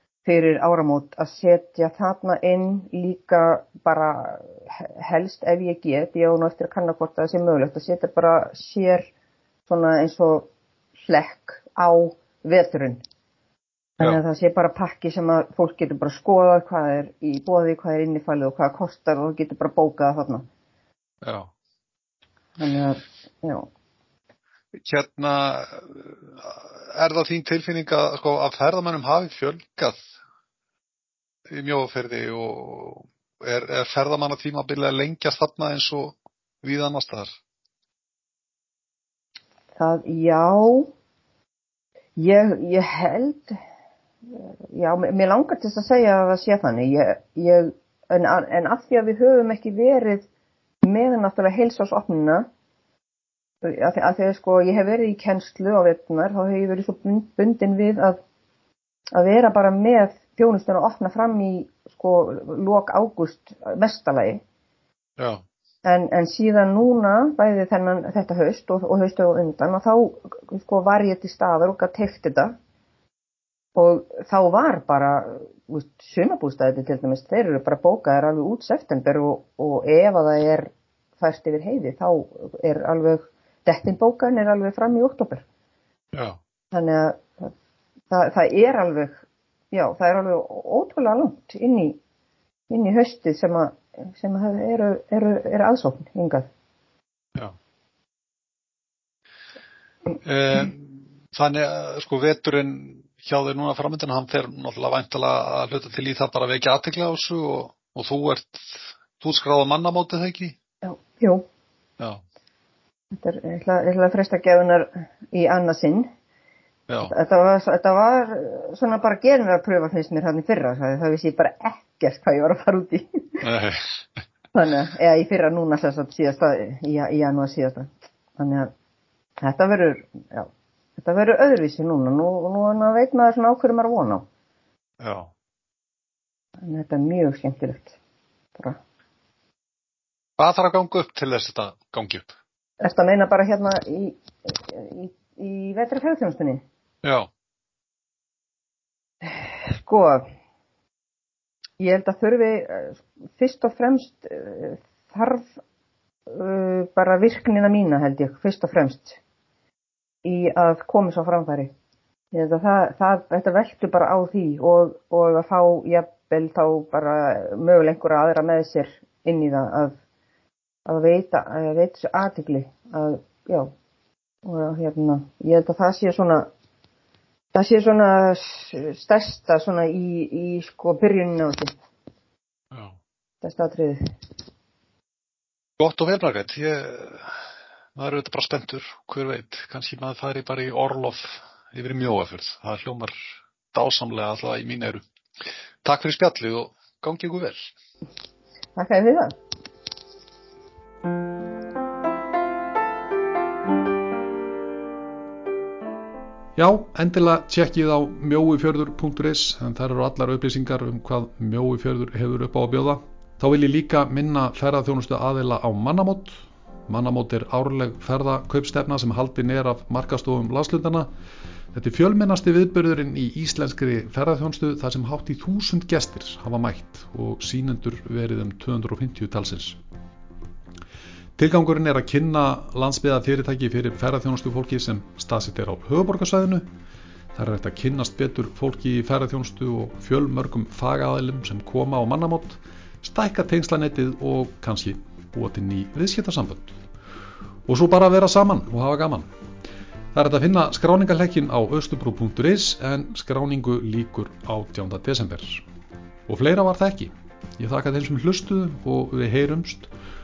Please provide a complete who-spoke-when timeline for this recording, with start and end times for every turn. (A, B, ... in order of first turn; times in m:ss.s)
0:00.2-0:09.1 A
0:09.7-0:10.5 A
0:11.0-0:13.0 A
0:14.0-0:20.5 A
0:21.2-0:21.5 B
0:22.6-0:23.7 A
0:24.8-0:30.0 B
0:31.5-0:37.3 B
0:39.8-0:40.9 A
0:42.2-0:43.6 A
0:44.3-0:50.3 A
0:50.8-0:52.4 A
0:53.6-0:58.2 A
0:59.1-1:04.4 A
1:05.2-1:05.4 B
1:05.8-1:12.6 A
1:13.8-1:25.4 A
1:26.7-1:27.5 A
1:28.1-1:32.0 A
1:32.7-1:36.5 A
1:40.2-1:50.6 B
1:50.8-1:51.4 A
1:53.1-1:56.1 A
1:56.9-1:57.2 B
1:57.1-2:03.5 A
2:03.4-2:03.9 B
2:04.5-2:08.7 A
2:09.4-2:14.2 A
2:15.0-2:15.3 B
2:16.6-2:18.0 A
2:20.4-2:22.4 B
2:22.8-2:26.6 A
2:27.0-2:27.3 B
2:29.2-2:30.3 A
2:31.8-2:35.5 A
2:36.3-2:39.2 A
2:40.2-2:41.7 A
2:42.3-2:50.0 A
2:50.9-2:53.7 A
2:54.4-2:56.5 A
2:57.5-3:01.7 A
3:02.7-3:03.0 B
3:03.4-3:04.1 A
3:05.8-3:07.4 B
3:08.0-3:13.1 B
3:13.7-3:15.0 B
3:15.8-3:17.7 B
3:18.8-3:19.4 A
3:26.6-3:41.1 C
3:41.7-3:49.8 C
3:51.4-3:56.7 C
3:57.4-4:06.8 C
4:07.7-4:09.3 C
4:10.1-4:15.6 C
4:16.3-4:19.9 C